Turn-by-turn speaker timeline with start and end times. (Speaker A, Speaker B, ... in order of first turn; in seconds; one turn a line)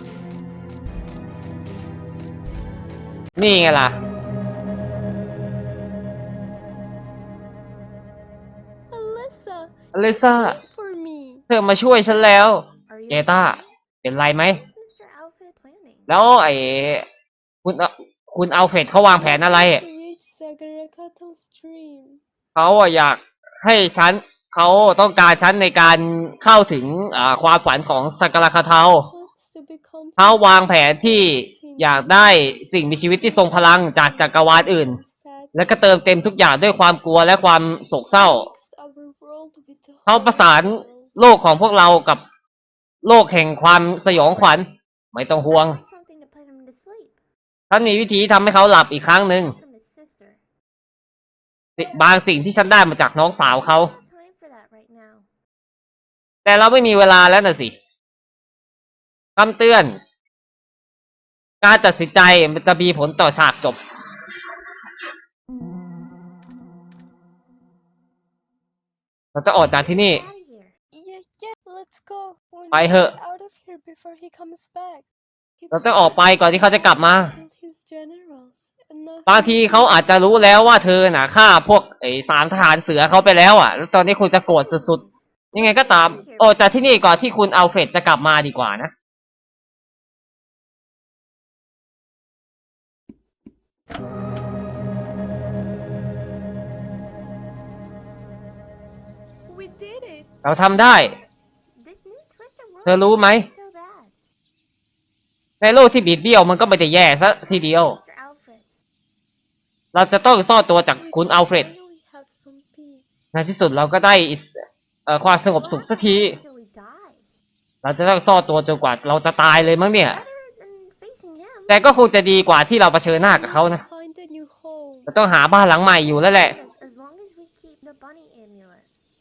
Speaker A: 3.4-3.9
Speaker B: 8.9-11.4
Speaker A: 9.9-10.6
Speaker A: 11.5-14.6
Speaker C: 12.9-13.7
Speaker C: 14.4-16.1
Speaker A: 16.1-17.1
Speaker A: 17.6-19.8
Speaker B: 19.2-22.2
Speaker A: 22.6-29.1
Speaker B: 29.1-35.8
Speaker A: 30.2-35.0
Speaker A: 35.5-38.5
Speaker B: 38.1-41.1
Speaker A: 40.1-42.2
Speaker A: 43.0-45.8
Speaker C: 44.2-44.6
Speaker C: 45.5-47.2
Speaker A: 47.7-49.5
Speaker C: 49.0-50.5
Speaker A: 51.8-53.9
Speaker C: 53.4-55.3
Speaker A: 56.4-57.8
Speaker A: 59.4-60.0
Speaker A: 61.6-63.8
Speaker A: 69.3-70.2
Speaker C: 69.7-70.8
Speaker B: 70.9-75.1
Speaker A: 72.7-73.1
Speaker B: 75.6-80.7
Speaker A: 75.7-77.3
Speaker A: 79.3-85.0
Speaker C: 84.5-87.2
Speaker A: 85.5-88.9
Speaker B: 99.4-100.3
Speaker A: 100.4-101.1
Speaker C: 101.7-104.2
Speaker A: 102.8-103.5
Speaker A: 105.6-108.0
Speaker C: 107.1-108.8
Speaker A: 109.9-111.7
Speaker B: 111.0-113.2
Speaker A: 113.3-114.5
Speaker A: 115.1-116.4
Speaker C: 115.4-117.3
Speaker A: 117.8-120.2
Speaker C: 120.1-122.0
Speaker A: 121.7-123.8
Speaker B: 123.2-125.1
Speaker A: 125.1-126.5
Speaker C: 126.2-129.1